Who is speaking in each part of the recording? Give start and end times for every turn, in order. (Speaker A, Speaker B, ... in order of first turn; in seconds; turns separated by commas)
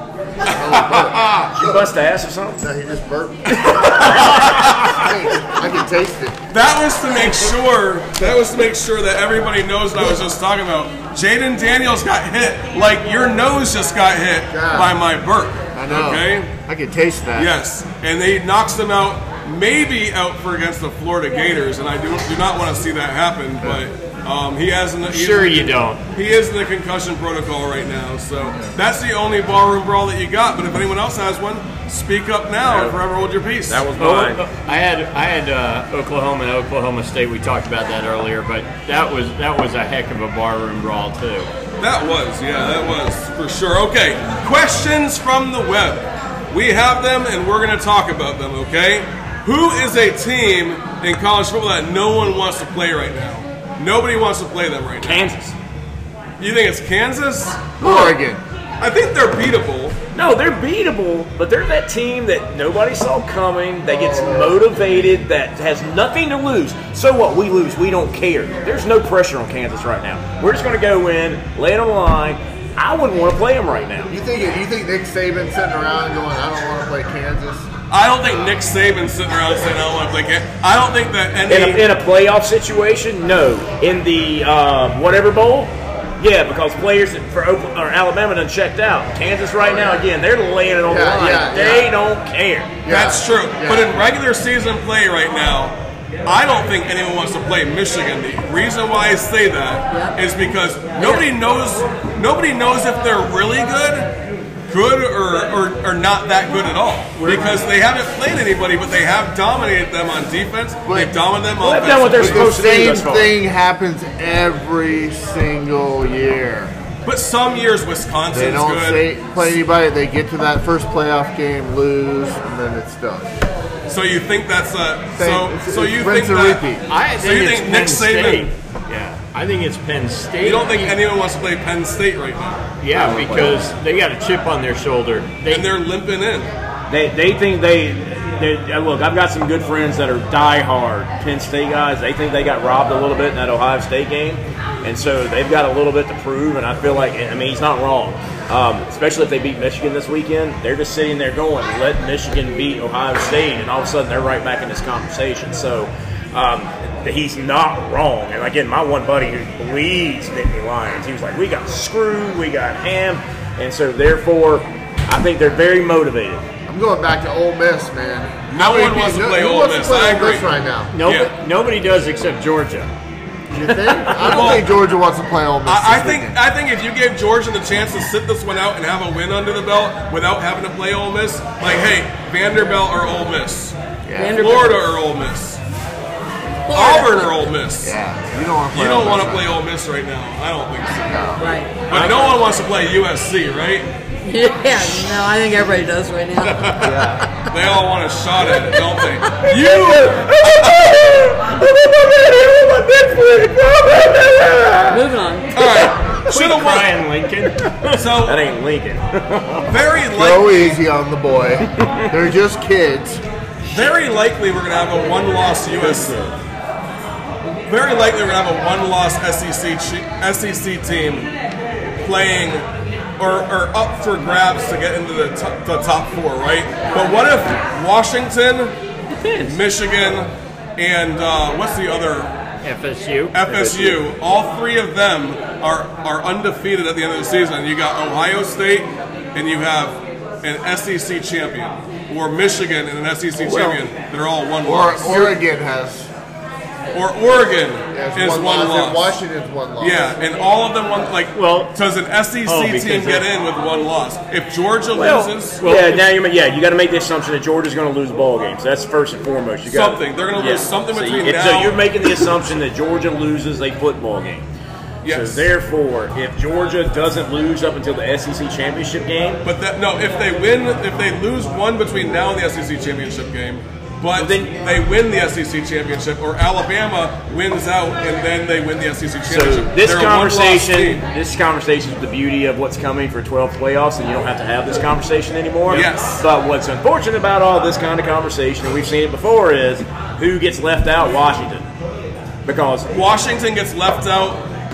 Speaker A: 0.4-1.9, Speaker B: 0.5-1.5, Speaker C: 1.5-2.7, Speaker A: 2.6-6.4, Speaker C: 3.7-5.0, Speaker B: 4.1-5.1, Speaker B: 6.5-16.5, Speaker A: 14.5-14.9, Speaker A: 15.7-17.5, Speaker B: 17.4-33.9, Speaker D: 25.1-26.0, Speaker C: 32.6-33.0, Speaker C: 33.7-34.4, Speaker D: 34.0-41.5, Speaker B: 41.8-55.3, Speaker C: 55.0-55.5, Speaker B: 56.4-58.1, Speaker A: 57.8-58.4, Speaker B: 58.8-60.0, Speaker C: 60.1-74.1, Speaker A: 63.9-65.2, Speaker A: 74.1-77.7, Speaker B: 77.9-81.9, Speaker C: 81.5-92.8, Speaker A: 89.6-90.0, Speaker A: 90.8-91.9, Speaker A: 92.8-93.9, Speaker B: 92.9-104.2, Speaker E: 99.9-100.2, Speaker E: 101.0-101.3, Speaker B: 104.7-112.6, Speaker D: 107.2-107.6, Speaker A: 110.9-111.1, Speaker C: 111.6-113.3, Speaker A: 112.1-116.7, Speaker B: 117.0-119.5, Speaker A: 118.3-123.3, Speaker B: 123.9-128.5, Speaker A: 125.2-126.8, Speaker D: 126.9-131.0, Speaker B: 130.4-132.5, Speaker D: 132.8-135.7, Speaker C: 132.9-133.7, Speaker B: 135.5-136.5, Speaker C: 136.9-166.5, Speaker A: 166.7-170.9, Speaker B: 168.5-170.5, Speaker D: 170.9-172.9, Speaker B: 171.0-171.3, Speaker A: 173.5-176.4, Speaker B: 174.2-174.7, Speaker B: 175.7-183.8, Speaker A: 184.1-184.4, Speaker E: 184.2-184.8, Speaker B: 184.3-185.6, Speaker E: 186.7-187.5, Speaker B: 186.7-188.0, Speaker A: 187.8-189.5, Speaker B: 188.7-191.3, Speaker A: 191.1-192.1, Speaker E: 191.4-192.0, Speaker B: 191.9-193.9, Speaker E: 194.2-197.3, Speaker B: 196.6-200.5, Speaker A: 196.8-197.2, Speaker C: 199.5-205.0, Speaker E: 204.9-205.6, Speaker B: 205.6-207.0, Speaker D: 206.1-208.1, Speaker B: 207.9-208.4, Speaker C: 208.2-209.7, Speaker B: 209.7-210.8, Speaker A: 210.1-213.2, Speaker C: 211.8-212.1, Speaker C: 213.7-214.0, Speaker B: 213.7-216.2, Speaker C: 215.7-216.4, Speaker B: 217.7-221.3, Speaker B: 222.0-222.7, Speaker B: 223.2-228.8, Speaker D: 229.1-229.6, Speaker B: 229.4-232.3, Speaker D: 232.6-233.4, Speaker B: 233.3-245.4, Speaker C: 233.5-234.0, Speaker C: 243.5-243.7, Speaker A: 244.6-246.1, Speaker B: 246.9-249.2, Speaker A: 247.9-250.1, Speaker B: 249.8-255.6, Speaker D: 251.3-251.7, Speaker D: 252.4-253.3, Speaker C: 254.9-264.5, Speaker D: 255.6-256.1, Speaker B: 259.7-262.3, Speaker B: 265.0-265.5, Speaker C: 265.1-269.4, Speaker B: 269.4-281.0, Speaker C: 274.2-274.6, Speaker C: 279.3-291.7, Speaker B: 285.7-286.2, Speaker C: 292.4-292.9, Speaker B: 292.9-294.5